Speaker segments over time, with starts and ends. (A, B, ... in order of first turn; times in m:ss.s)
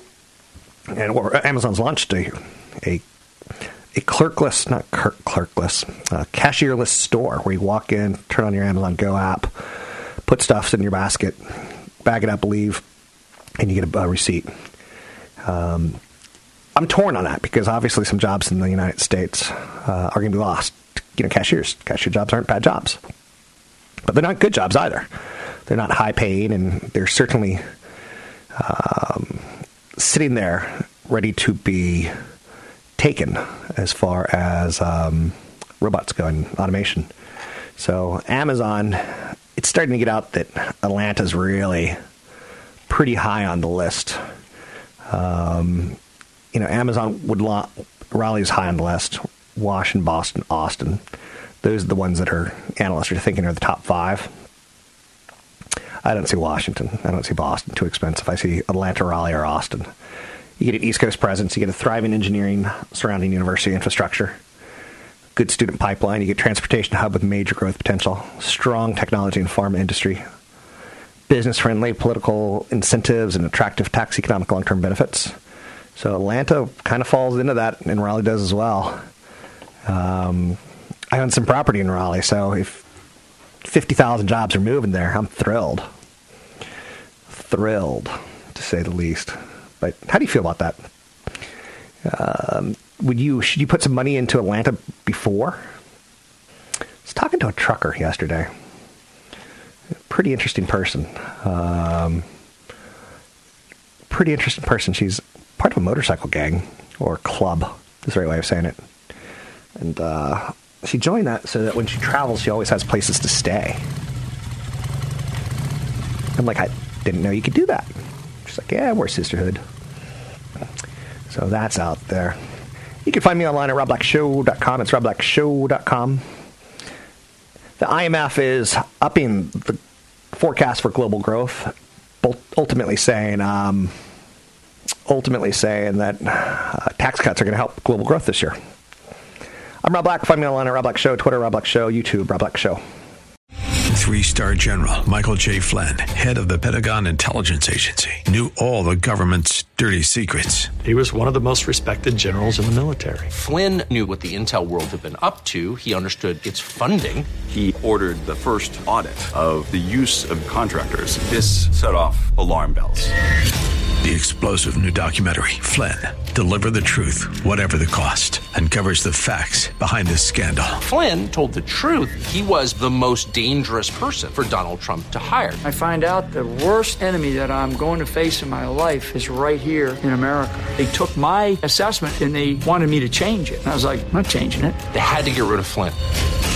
0:00.9-0:03.0 A
0:03.9-0:09.5 A
0:10.3-0:11.4 A
0:12.0-0:12.8 A
0:13.6-0:14.5 A
0:15.4-0:16.0 A
0:16.8-0:23.0 A
0:24.0-0:25.1 A
0:25.7-0:27.6 A
0:28.6-0:29.5 A
0:30.0-0:32.1 A
0:33.0-0:37.1 A
0:37.8-0:42.0 A
0:42.9-0:44.2 A
0:45.1-0:46.0 A
0:46.5-0:51.0 A
0:51.6-0:54.3 A
0:56.0-0:59.9 A
1:00.6-1:04.4 A
1:05.4-1:10.2 A
1:11.3-1:15.4 A
1:16.0-1:19.0 A
1:19.9-1:20.6 A
1:21.1-1:22.8 A
1:23.6-1:25.9 A
1:27.3-1:30.8 A
1:32.0-1:35.6 A
1:37.0-1:38.5 A
1:40.1-1:42.2 A
1:44.1-1:48.8 A
1:49.8-1:53.8 A
1:56.4-1:57.9 A
1:58.4-1:59.6 A
2:01.3-2:02.4 A
2:03.0-2:06.2 A
2:07.8-2:09.8 A
2:10.3-2:13.9 A
2:15.1-2:18.6 A
2:19.8-2:22.8 A
2:23.9-2:30.8 B
2:30.9-2:33.3 C
2:33.3-2:37.3 D
2:37.5-2:43.1 E
2:44.0-2:50.8 B
2:50.8-2:55.6 D
2:55.6-3:04.8 F
3:04.9-3:06.0 D